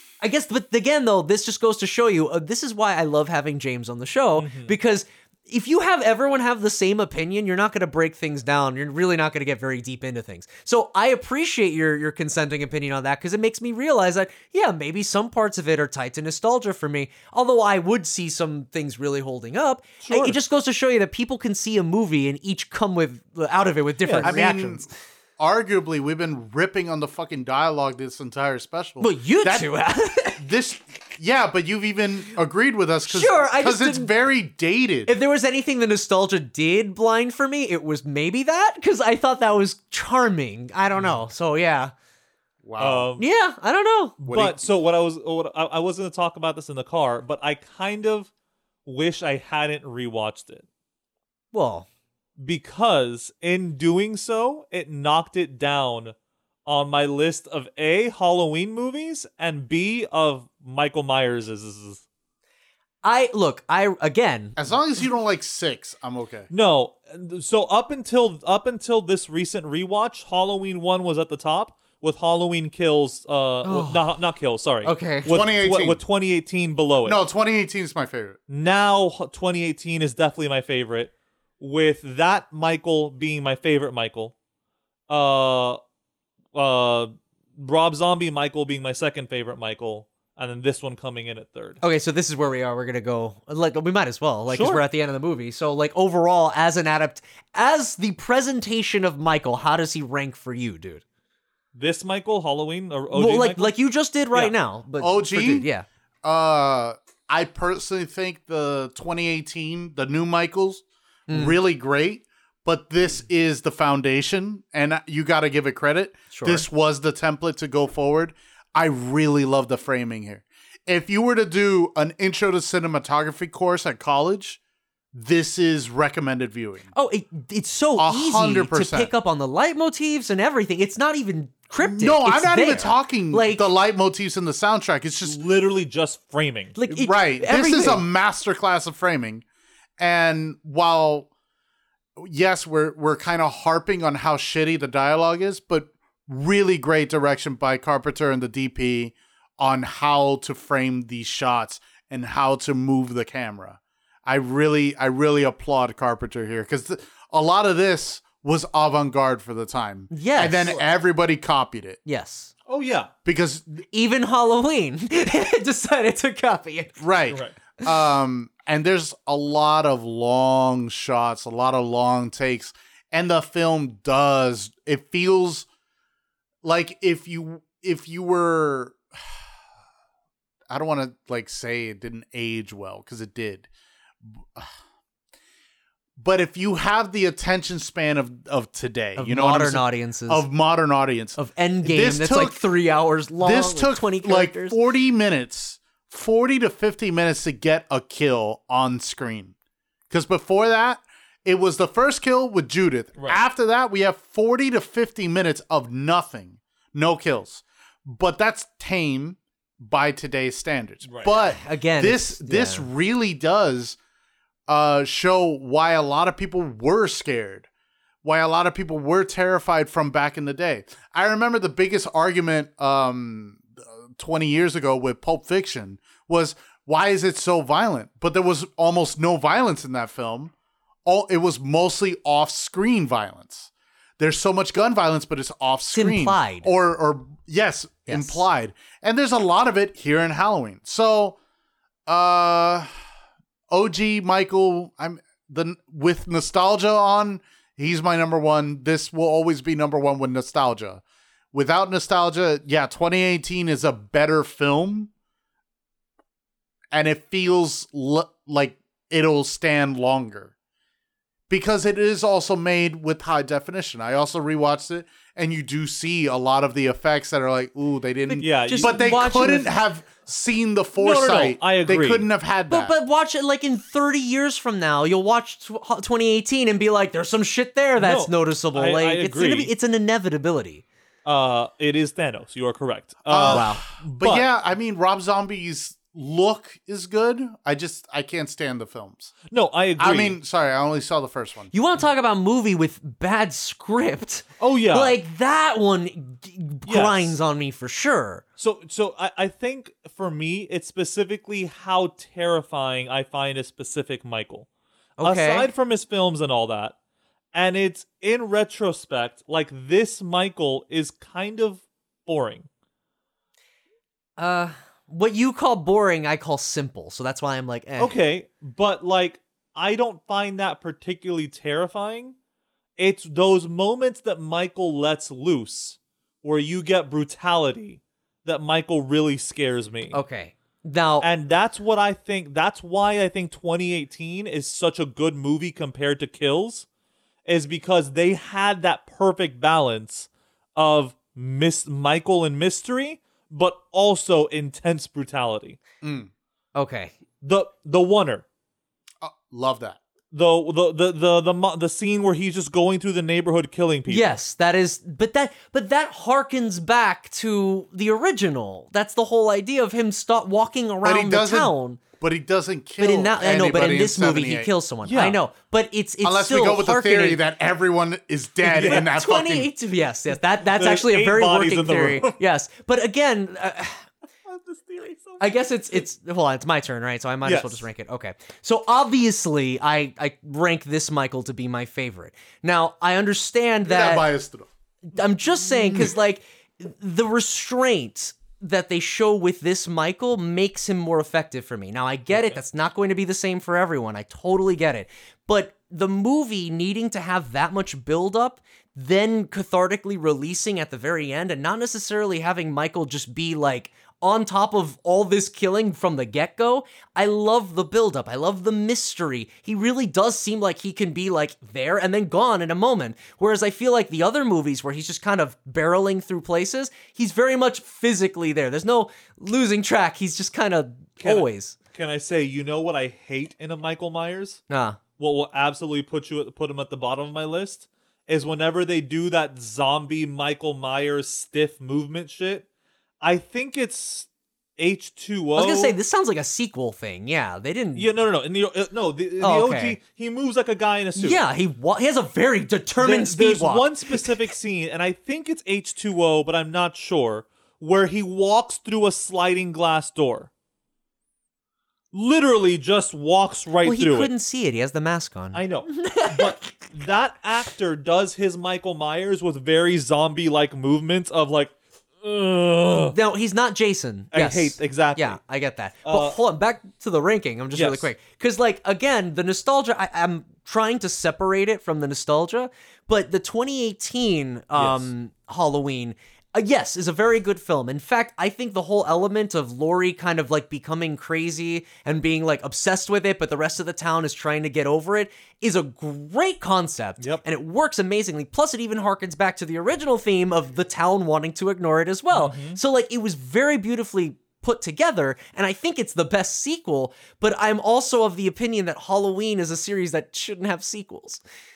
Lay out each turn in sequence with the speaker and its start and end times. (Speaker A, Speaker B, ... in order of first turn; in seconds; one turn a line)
Speaker A: 0.2-24.9
Speaker B: 4.4-4.7
Speaker B: 20.0-20.4
Speaker B: 24.1-24.3
Speaker C: 24.2-29.7
Speaker A: 29.0-30.4
Speaker C: 30.4-35.1
Speaker A: 33.1-34.1
Speaker A: 35.1-41.9
Speaker C: 42.6-43.1
Speaker B: 42.8-43.2
Speaker A: 43.2-44.2
Speaker B: 44.2-48.3
Speaker C: 44.2-44.6
Speaker B: 48.9-50.6
Speaker A: 51.5-51.9
Speaker B: 52.4-56.1
Speaker B: 56.7-62.0
Speaker A: 63.0-64.6
Speaker C: 64.6-66.5
Speaker B: 66.5-77.2
Speaker A: 73.6-74.1
Speaker A: 74.8-75.3
Speaker C: 75.3-76.0
Speaker C: 77.0-78.4
Speaker B: 78.5-84.3
Speaker B: 85.1-85.8
Speaker B: 86.5-91.8
Speaker A: 91.8-101.0
Speaker B: 94.5-94.8
Speaker B: 101.7-103.7
Speaker A: 103.1-105.8
Speaker C: 105.0-105.7
Speaker C: 106.2-124.6
Speaker A: 111.3-111.6
Speaker A: 116.3-116.7
Speaker C: 125.1-126.9
Speaker A: 126.9-133.7
Speaker C: 128.0-129.1
Speaker C: 131.8-135.4
Speaker B: 135.3-136.8
Speaker A: 136.8-138.1
Speaker C: 136.9-139.4
Speaker C: 140.0-141.3
Speaker C: 142.2-162.0
Speaker A: 160.1-160.8
Speaker A: 162.1-162.5
Speaker B: 162.7-163.1
Speaker C: 163.2-163.8
Speaker A: 163.9-167.0
Speaker C: 167.0-175.7
Speaker C: 176.6-179.0
Speaker C: 180.7-183.7
Speaker C: 184.2-184.7
Speaker C: 186.2-192.6
Speaker A: 189.2-190.4
Speaker A: 191.4-194.8
Speaker C: 193.4-199.5
Speaker C: 200.1-214.0
Speaker B: 211.1-211.3
Speaker A: 211.4-212.9
Speaker C: 214.7-217.7
Speaker C: 218.2-230.5
Speaker C: 231.1-241.4
Speaker A: 235.9-236.7
Speaker A: 238.1-238.4
Speaker C: 242.1-242.9
Speaker C: 243.7-255.1
Speaker C: 256.9-260.5
Speaker C: 261.5-272.9
Speaker A: 268.3-269.7
Speaker B: 268.4-269.1
Speaker B: 271.0-272.3
Speaker A: 272.7-280.8
Speaker B: 278.0-279.7
Speaker B: 281.2-284.5
Speaker C: 283.3-289.3
Speaker A: 283.4-283.8
Speaker B: 289.5-290.4
Speaker C: 290.0-291.7
Speaker A: 291.7-298.4
Speaker B: 294.6-295.2
Speaker B: 296.9-297.4
Speaker B: 298.6-304.7
Speaker A: 305.2-305.7
Speaker B: 305.2-306.9
Speaker B: 307.5-312.7
Speaker A: 314.4-318.1
Speaker B: 318.0-322.4
Speaker B: 323.0-330.2
Speaker A: 330.1-331.3
Speaker B: 331.2-336.9
Speaker B: 337.5-345.8
Speaker C: 346.0-346.3
Speaker A: 346.8-347.1
Speaker B: 347.4-348.4
Speaker C: 349.2-350.0
Speaker B: 350.3-354.4
Speaker A: 354.1-362.0
Speaker C: 361.0-364.7
Speaker A: 363.0-367.4
Speaker B: 365.1-365.4
Speaker C: 366.2-369.7
Speaker A: 368.7-374.0
Speaker B: 368.8-369.1
Speaker B: 370.6-372.4
Speaker B: 374.5-376.0
Speaker A: 375.4-384.3
Speaker B: 377.4-377.9
Speaker C: 383.9-384.7
Speaker A: 385.1-421.8
Speaker B: 392.3-392.6
Speaker B: 421.2-424.6
Speaker A: 424.7-425.0
Speaker B: 425.2-432.7
Speaker B: 433.2-434.3
Speaker B: 434.8-436.0
Speaker A: 435.6-438.1
Speaker B: 438.0-441.4
Speaker A: 439.4-440.0
Speaker A: 441.2-444.3
Speaker B: 443.0-450.5
Speaker B: 452.1-454.3
Speaker A: 453.8-456.7
Speaker B: 455.5-463.2
Speaker A: 463.1-501.4
Speaker B: 464.3-465.4
Speaker B: 466.1-466.4
Speaker B: 467.8-468.1
Speaker B: 474.8-475.1
Speaker B: 492.3-492.8